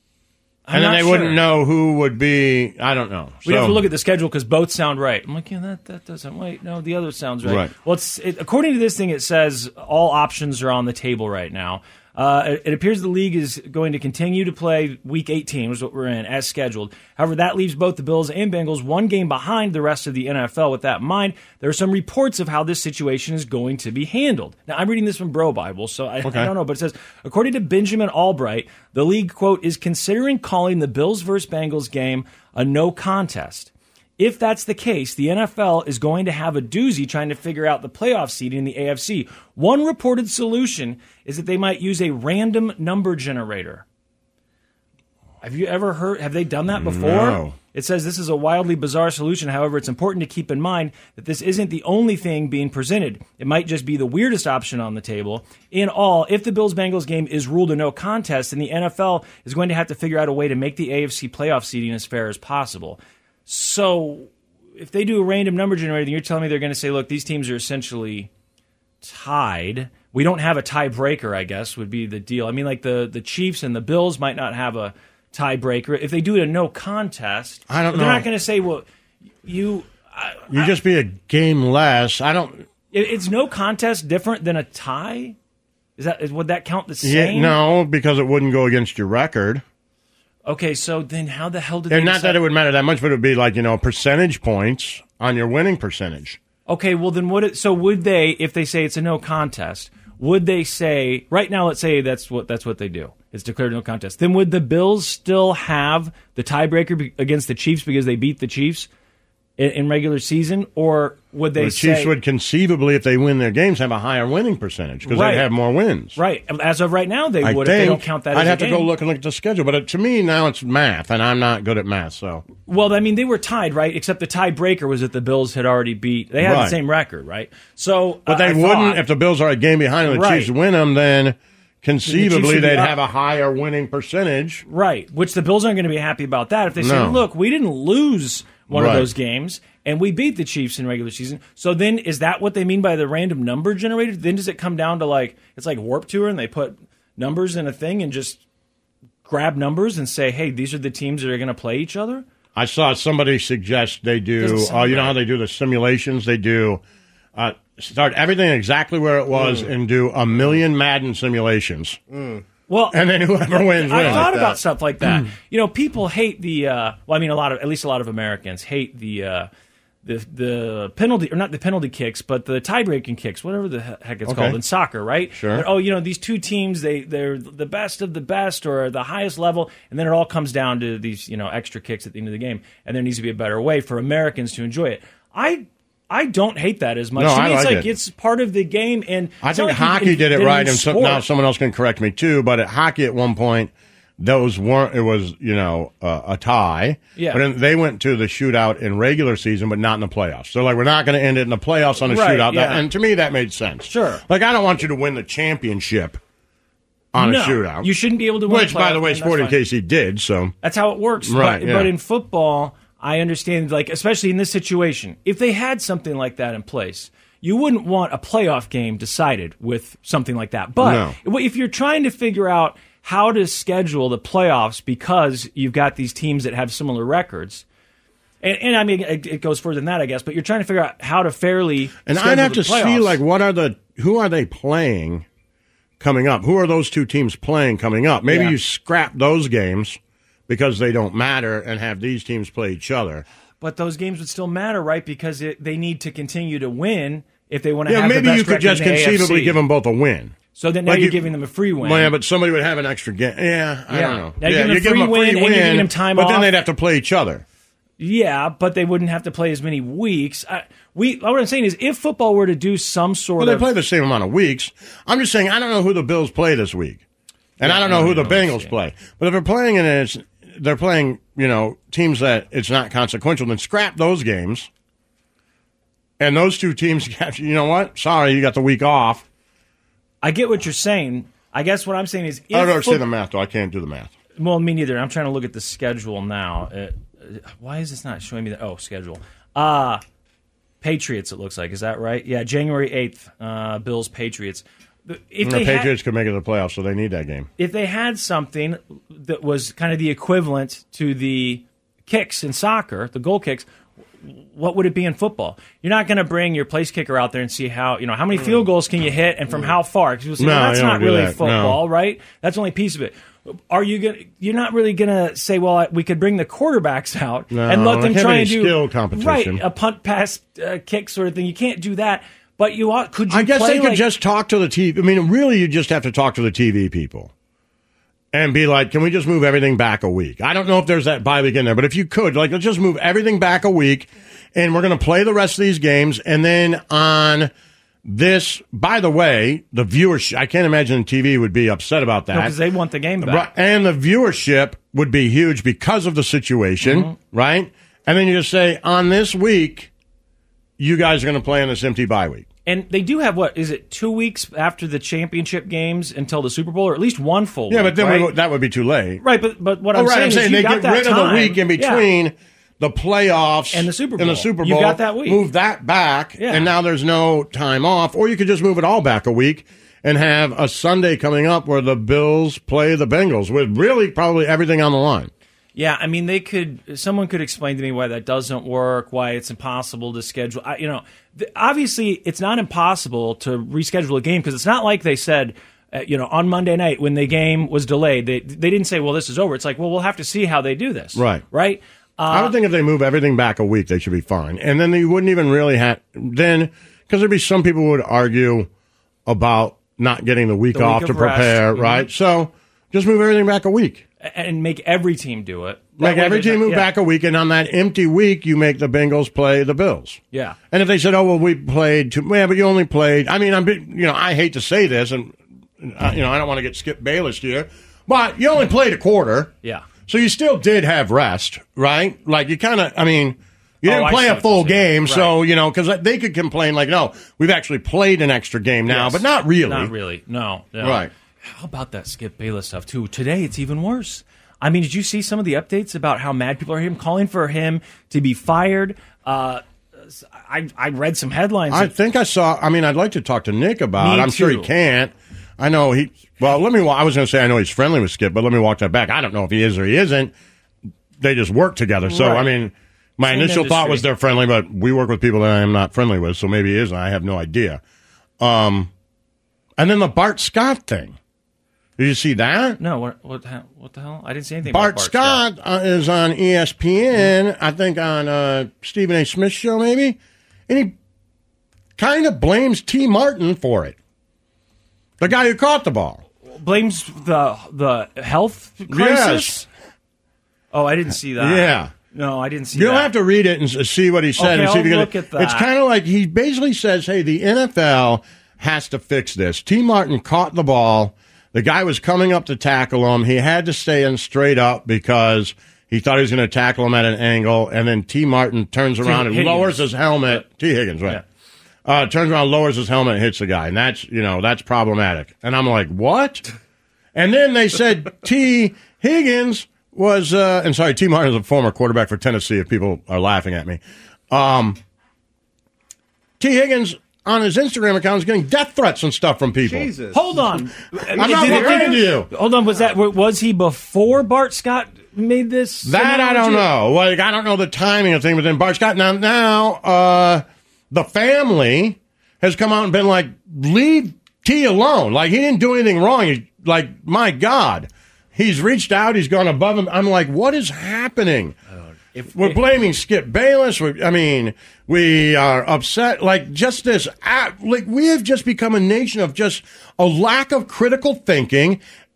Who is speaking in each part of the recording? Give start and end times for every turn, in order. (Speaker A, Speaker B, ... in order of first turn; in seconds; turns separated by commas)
Speaker A: 0.7-1.4, Speaker B: 0.7-3.8, Speaker A: 3.4-43.8, Speaker B: 7.4-7.7, Speaker B: 26.2-26.5, Speaker A: 45.4-68.3, Speaker B: 46.7-47.5, Speaker A: 69.0-78.8, Speaker B: 77.7-78.2, Speaker A: 79.4-80.7, Speaker B: 80.5-82.7, Speaker A: 82.9-85.4, Speaker A: 86.0-87.6, Speaker B: 87.0-89.6, Speaker A: 90.5-92.4, Speaker B: 91.9-96.4, Speaker A: 96.7-108.9, Speaker A: 109.6-112.1, Speaker B: 111.6-116.2, Speaker A: 115.0-115.5, Speaker A: 116.1-118.9, Speaker B: 117.4-122.5, Speaker A: 122.7-129.0, Speaker B: 126.4-126.8, Speaker B: 128.3-134.6, Speaker A: 130.1-130.5, Speaker A: 132.1-133.0, Speaker A: 134.7-148.4, Speaker B: 136.8-137.2, Speaker B: 138.7-139.1, Speaker A: 149.2-152.2, Speaker B: 152.6-156.8, Speaker A: 154.4-155.2, Speaker B: 157.3-162.0, Speaker C: 159.3-159.7, Speaker C: 162.1-162.4, Speaker A: 162.7-169.5, Speaker B: 162.9-164.4, Speaker C: 163.9-164.6, Speaker B: 165.0-165.3, Speaker A: 170.0-191.2, Speaker B: 174.3-174.6, Speaker B: 175.3-175.7, Speaker B: 187.2-187.9, Speaker B: 189.4-206.2, Speaker A: 197.2-197.4, Speaker A: 202.1-202.8, Speaker A: 203.9-204.2, Speaker B: 207.1-207.9, Speaker A: 207.2-209.5, Speaker B: 208.5-210.5, Speaker A: 210.6-227.6, Speaker B: 211.2-211.9, Speaker B: 220.8-221.1, Speaker A: 228.4-233.2, Speaker B: 232.1-235.2, Speaker B: 236.0-243.2, Speaker A: 238.3-238.5, Speaker A: 243.6-249.6, Speaker B: 247.9-250.3, Speaker A: 250.5-252.1, Speaker B: 250.9-251.3, Speaker B: 251.8-257.4, Speaker A: 253.9-256.5, Speaker A: 258.0-263.7, Speaker B: 263.4-267.0, Speaker B: 267.6-274.7, Speaker A: 267.6-268.7, Speaker B: 276.2-279.2, Speaker A: 280.2-283.0, Speaker B: 282.5-284.1, Speaker A: 284.4-290.0, Speaker A: 290.8-295.9, Speaker B: 295.4-297.5, Speaker A: 297.6-303.7, Speaker A: 304.2-324.0, Speaker B: 310.4-311.8, Speaker B: 317.5-319.6, Speaker B: 323.3-327.3, Speaker B: 328.3-337.5, Speaker B: 338.1-342.6, Speaker A: 342.3-343.5, Speaker B: 343.2-349.9, Speaker A: 346.8-347.1, Speaker B: 350.8-352.4, Speaker A: 352.6-358.3, Speaker B: 357.7-359.2, Speaker A: 359.2-362.0, Speaker B: 359.9-375.3, Speaker A: 363.7-365.4, Speaker A: 366.4-366.7, Speaker A: 375.7-392.5, Speaker B: 391.1-391.4, Speaker B: 392.3-398.7, Speaker B: 399.2-404.0, Speaker A: 400.7-402.1, Speaker A: 404.2-406.9, Speaker B: 406.0-410.2, Speaker A: 410.3-410.6, Speaker B: 410.7-419.5, Speaker B: 420.1-429.9, Speaker A: 423.8-425.3, Speaker A: 428.9-441.9, Speaker B: 430.8-431.1, Speaker B: 441.7-450.3, Speaker A: 444.0-444.7, Speaker B: 451.2-457.8, Speaker A: 452.1-452.5, Speaker A: 453.2-454.0, Speaker B: 458.4-458.9, Speaker B: 459.8-461.2, Speaker B: 462.0-462.8, Speaker A: 462.8-465.4, Speaker B: 464.7-470.2, Speaker B: 470.7-470.9, Speaker B: 472.0-473.9, Speaker B: 475.2-476.2, Speaker A: 476.5-479.6, Speaker B: 478.9-479.6, Speaker A: 480.7-483.1, Speaker B: 481.4-481.9, Speaker B: 482.7-501.2, Speaker A: 484.4-485.7, Speaker A: 499.0-500.4, Speaker B: 501.8-506.4, Speaker B: 507.1-513.8, Speaker B: 514.3-514.8, Speaker B: 516.4-519.9, Speaker C: 519.6-520.6, Speaker A: 520.1-526.7, Speaker C: 521.1-522.0, Speaker B: 521.1-522.3, Speaker B: 525.8-541.5, Speaker A: 542.1-542.6, Speaker B: 542.3-551.8